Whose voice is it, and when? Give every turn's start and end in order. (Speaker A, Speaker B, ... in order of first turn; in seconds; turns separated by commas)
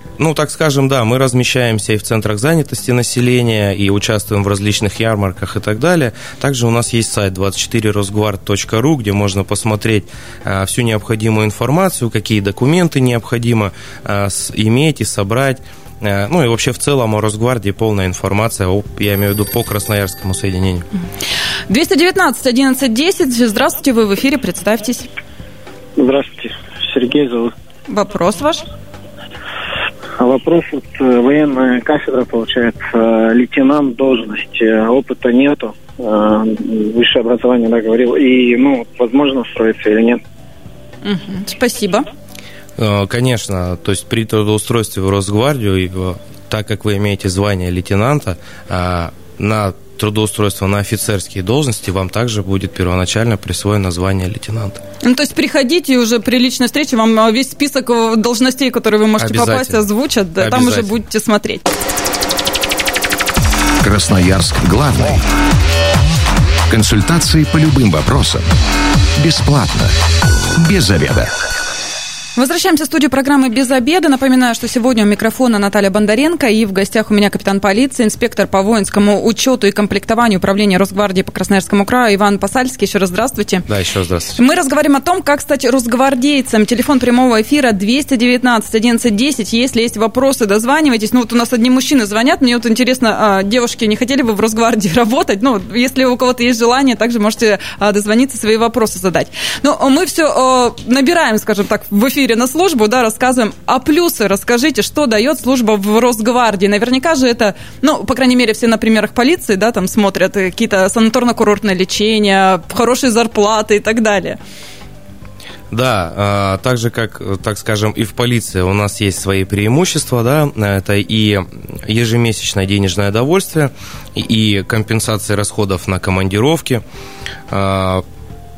Speaker A: 0.2-20.9, Speaker B: 21.7-25.1, Speaker C: 26.0-27.5, Speaker B: 27.9-28.6, Speaker C: 30.2-40.2, Speaker B: 41.0-42.1, Speaker A: 42.8-54.8, Speaker B: 55.0-61.6, Speaker A: 59.2-59.8, Speaker A: 60.4-61.0, Speaker D: 63.8-65.2, Speaker D: 66.7-68.5, Speaker D: 69.2-70.0, Speaker D: 70.6-71.3, Speaker B: 72.4-83.7, Speaker A: 83.7-84.4, Speaker B: 84.4-114.4, Speaker A: 115.7-126.8, Speaker A: 127.5-128.0